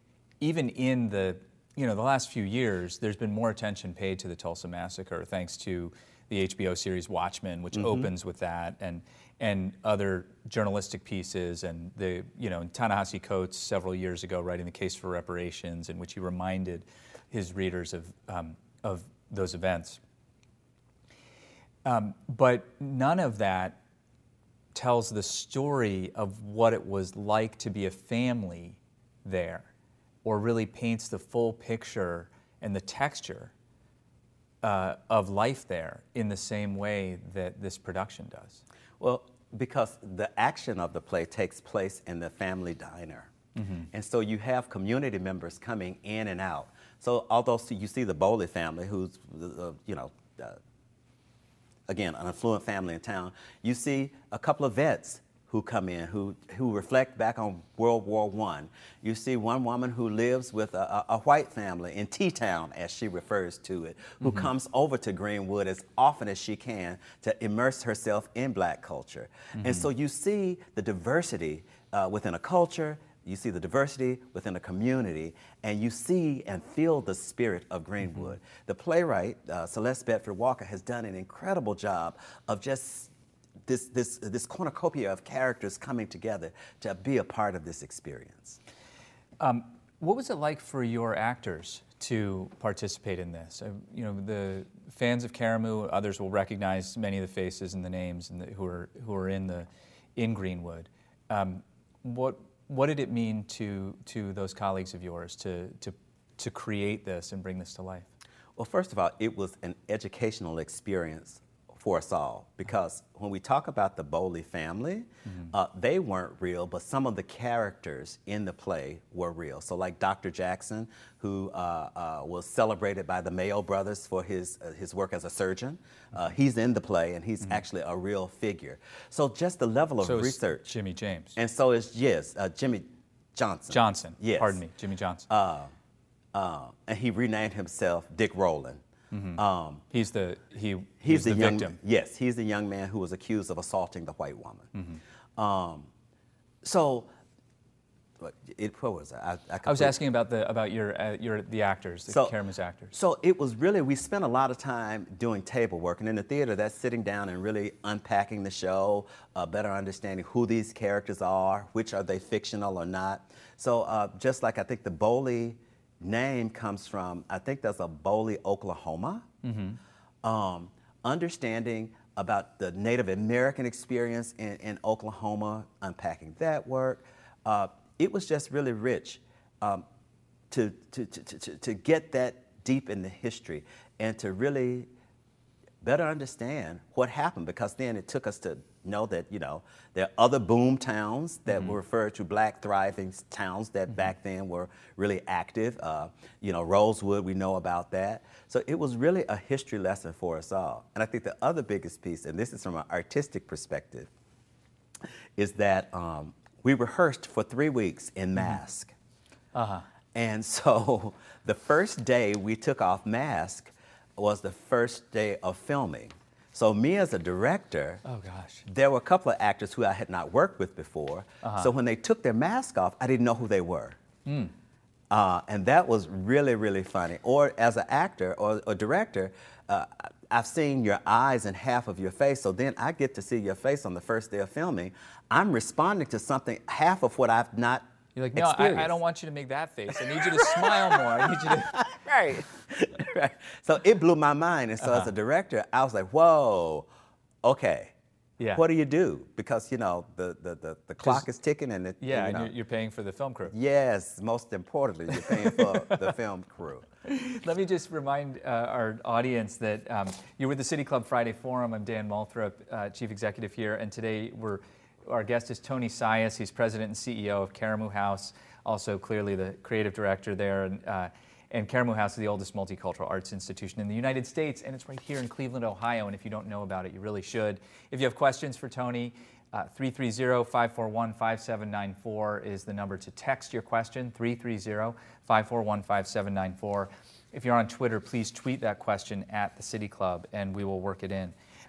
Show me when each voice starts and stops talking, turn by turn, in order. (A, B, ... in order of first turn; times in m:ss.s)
0:00.4-0:20.0 A
0:07.8-0:08.1 B
0:21.8-0:23.8 A
0:24.7-0:29.7 A
0:30.2-0:33.5 A
0:34.6-0:38.6 A
0:39.0-0:43.3 B
0:43.6-0:43.9 A
0:43.9-0:50.6 B
0:51.9-1:23.1 B
1:09.6-1:09.9 A
1:23.6-1:28.6 B
1:29.4-1:48.1 A
1:48.6-2:10.7 B
2:10.0-2:11.4 A
2:11.4-2:14.6 B
2:13.7-2:15.3 A
2:15.3-2:15.7 B
2:16.3-2:18.8 B
2:19.1-2:21.8 A
2:19.4-2:19.8 B
2:21.0-2:24.7 B
2:24.7-2:25.0 A
2:25.4-2:25.9 B
2:26.6-2:27.1 B
2:28.2-2:30.0 B
2:29.6-2:32.9 A
2:32.1-2:32.3 B
2:32.9-2:49.3 B
2:49.4-2:49.8 A
2:50.2-2:59.8 B
3:00.5-3:04.9 B
3:05.8-3:24.1 B
3:25.4-3:28.9 B
3:29.5-3:29.9 A
3:30.1-3:38.0 B
3:38.0-3:38.6 A
3:38.6-3:44.0 B
3:41.4-3:41.7 A
3:44.2-3:44.5 A
3:45.1-3:59.0 B
3:58.2-4:01.8 A
3:59.9-4:06.9 B
4:04.8-4:05.1 A
4:07.4-4:07.9 B
4:08.4-4:08.6 A
4:08.5-4:12.5 B
4:12.0-4:13.5 A
4:13.5-4:16.9 B
4:15.2-4:16.1 A
4:17.0-4:51.3 A